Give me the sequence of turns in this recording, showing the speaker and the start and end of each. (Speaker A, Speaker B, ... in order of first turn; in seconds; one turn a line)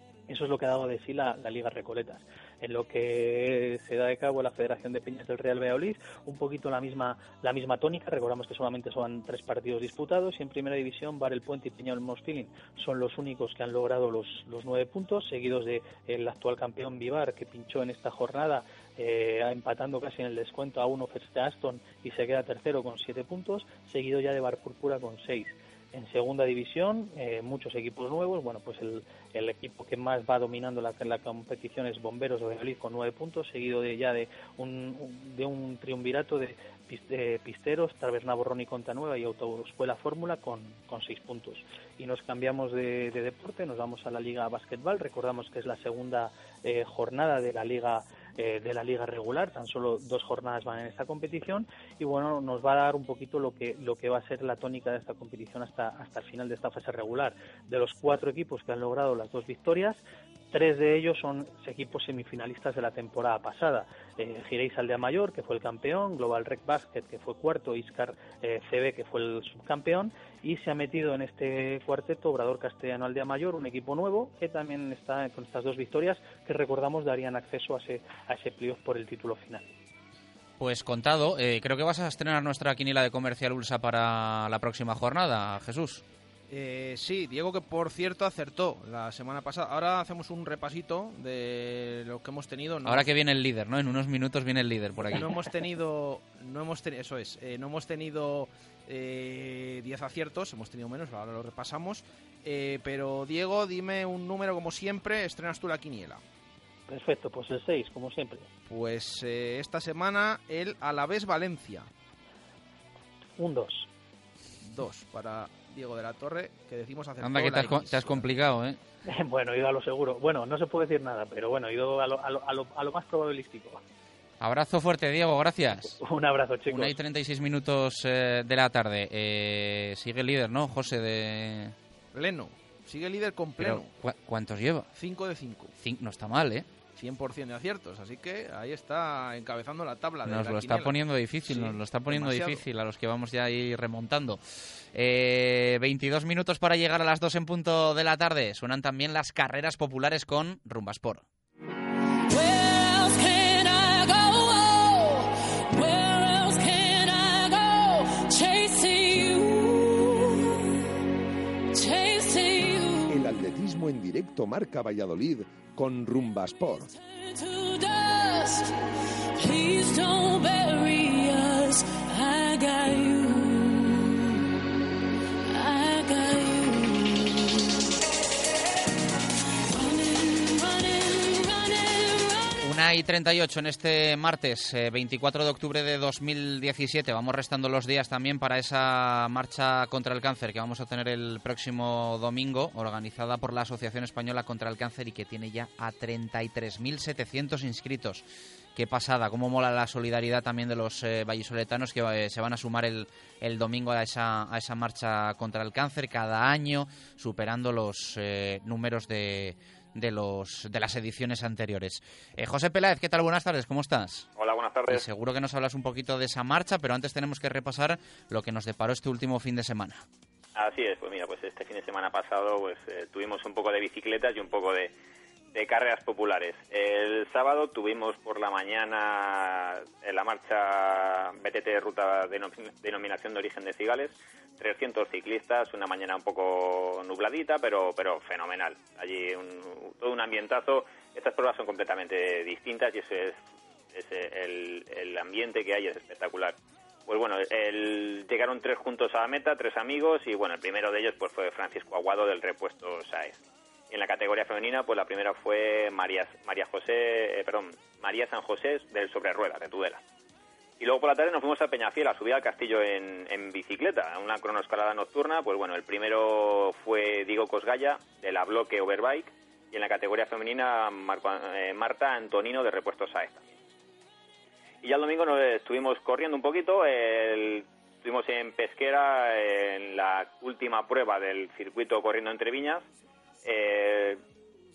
Speaker A: 0.3-79.7
Speaker B: 80.6-86.0
Speaker C: 86.5-93.1
Speaker B: 92.8-95.3
Speaker C: 95.0-106.2
Speaker A: 106.9-108.5
Speaker C: 108.7-111.9
Speaker A: 113.4-113.9
Speaker C: 114.6-118.3
Speaker B: 117.2-118.8
Speaker A: 119.1-123.8
Speaker B: 124.4-126.0
Speaker A: 125.9-127.0
Speaker B: 126.7-131.7
Speaker C: 132.1-133.9
Speaker B: 133.6-134.9
Speaker C: 135.0-135.7
Speaker B: 135.8-136.7
Speaker C: 137.0-142.7
Speaker B: 140.3-144.4
Speaker B: 144.9-151.3
Speaker D: 152.3-160.7
Speaker D: 161.7-163.3
Speaker E: 163.1-166.9
Speaker D: 167.1-168.7
Speaker D: 169.4-174.4
Speaker D: 175.5-177.9
Speaker D: 179.7-182.6
Speaker B: 182.6-214.3
Speaker F: 214.4-215.1
Speaker B: 214.9-220.0
Speaker F: 220.6-224.9
Speaker F: 225.5-243.4
Speaker F: 243.9-246.6
Speaker F: 247.1-260.0
Speaker F: 260.8-273.5
Speaker F: 274.8-282.9
Speaker F: 283.4-284.2